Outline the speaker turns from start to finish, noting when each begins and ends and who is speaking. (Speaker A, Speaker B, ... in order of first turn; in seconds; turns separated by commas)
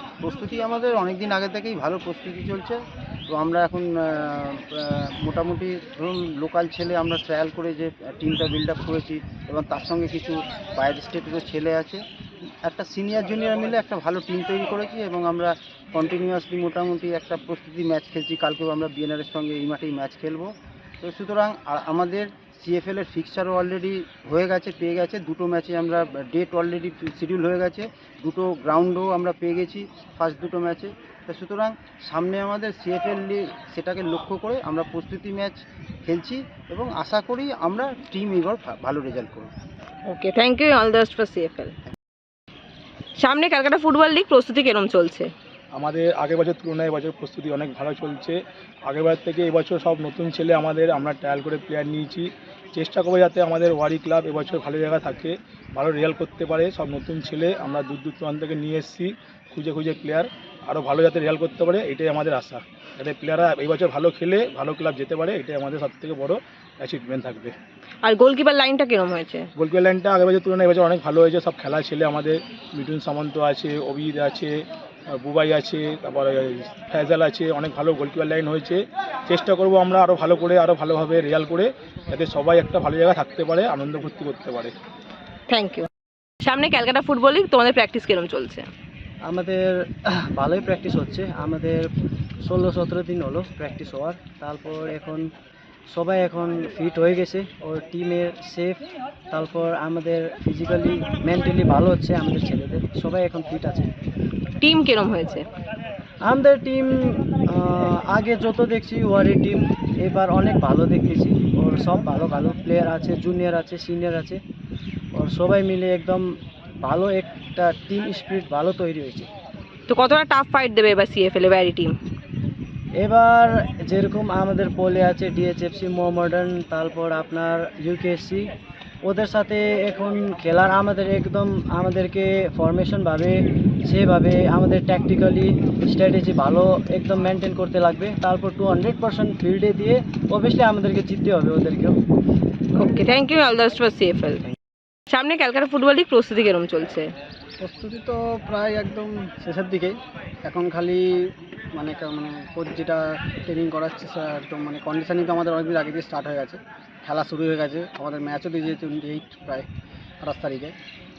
Speaker A: 0.2-12.0, Speaker A: 12.6-39.5, Speaker B: 40.1-41.7, Speaker B: 43.2-45.3, Speaker C: 45.7-67.5, Speaker B: 68.0-69.5, Speaker C: 69.5-74.6, Speaker C: 75.1-84.7, Speaker B: 85.5-85.9, Speaker B: 86.4-88.7, Speaker D: 89.3-91.8, Speaker D: 92.4-95.3, Speaker D: 95.9-103.9, Speaker B: 104.6-105.4, Speaker D: 106.2-114.4, Speaker D: 115.1-119.3, Speaker B: 119.9-122.0, Speaker D: 123.0-128.5, Speaker D: 129.0-142.0, Speaker B: 142.7-144.4, Speaker B: 145.1-147.1, Speaker E: 147.6-159.7, Speaker E: 160.2-160.7